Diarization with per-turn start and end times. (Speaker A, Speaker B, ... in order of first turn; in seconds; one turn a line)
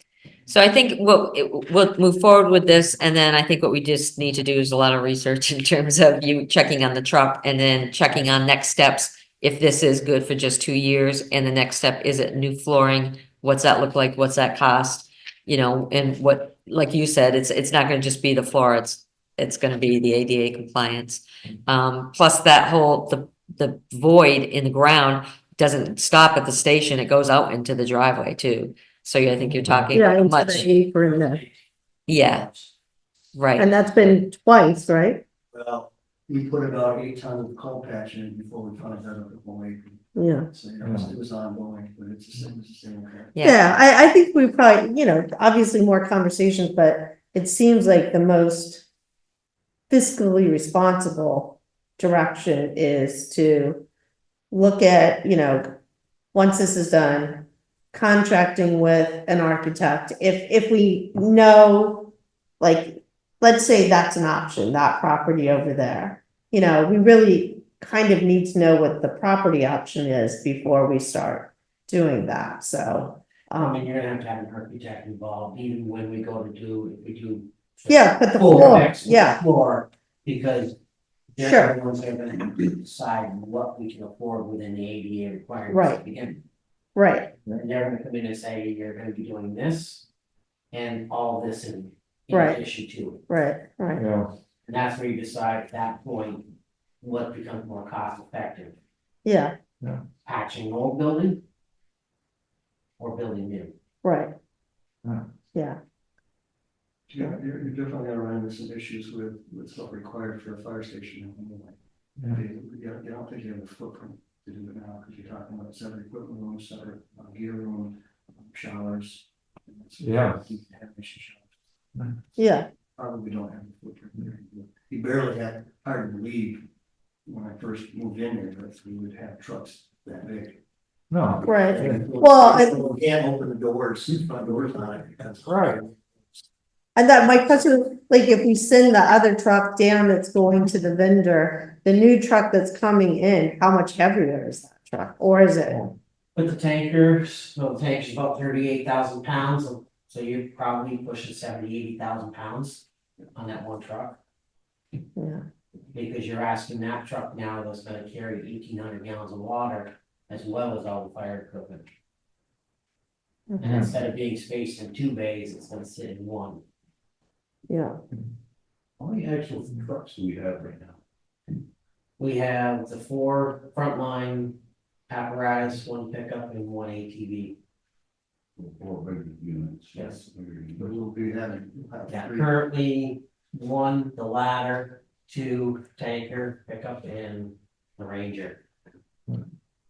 Speaker A: 0.5-30.7
Speaker B: 29.5-29.9
Speaker C: 29.9-31.4
Speaker D: 30.5-31.6
Speaker A: 32.1-32.5
Speaker D: 32.1-32.7
Speaker A: 33.3-33.7
Speaker C: 33.6-35.2
Speaker E: 35.5-43.3
Speaker C: 40.2-40.5
Speaker B: 40.8-41.1
Speaker A: 43.4-43.6
Speaker C: 43.4-48.9
Speaker C: 49.9-53.8
Speaker C: 54.5-55.7
Speaker C: 56.3-73.8
Speaker D: 73.6-80.8
Speaker C: 77.9-79.4
Speaker D: 81.4-86.4
Speaker C: 81.4-81.7
Speaker C: 85.7-86.0
Speaker C: 87.0-87.3
Speaker D: 87.5-90.0
Speaker D: 90.7-93.2
Speaker C: 92.3-92.6
Speaker C: 93.3-94.0
Speaker B: 94.0-94.3
Speaker D: 94.7-96.5
Speaker D: 97.0-98.8
Speaker C: 99.2-99.5
Speaker D: 100.2-101.4
Speaker D: 103.0-103.7
Speaker C: 104.0-104.3
Speaker E: 107.1-111.8
Speaker B: 112.2-112.4
Speaker E: 112.3-121.5
Speaker B: 120.0-120.4
Speaker C: 122.4-122.7
Speaker E: 123.0-126.6
Speaker E: 127.3-130.6
Speaker B: 131.1-132.1
Speaker E: 131.3-135.9
Speaker C: 131.4-132.8
Speaker C: 137.0-145.8
Speaker D: 146.4-152.8
Speaker D: 153.4-154.2
Speaker C: 155.2-155.4
Speaker D: 155.9-161.9
Speaker D: 163.6-166.6
Speaker C: 167.7-168.0
Speaker D: 172.2-174.6
Speaker D: 175.1-177.6
Speaker D: 179.9-180.2
Speaker E: 180.8-182.5
Speaker D: 182.1-188.6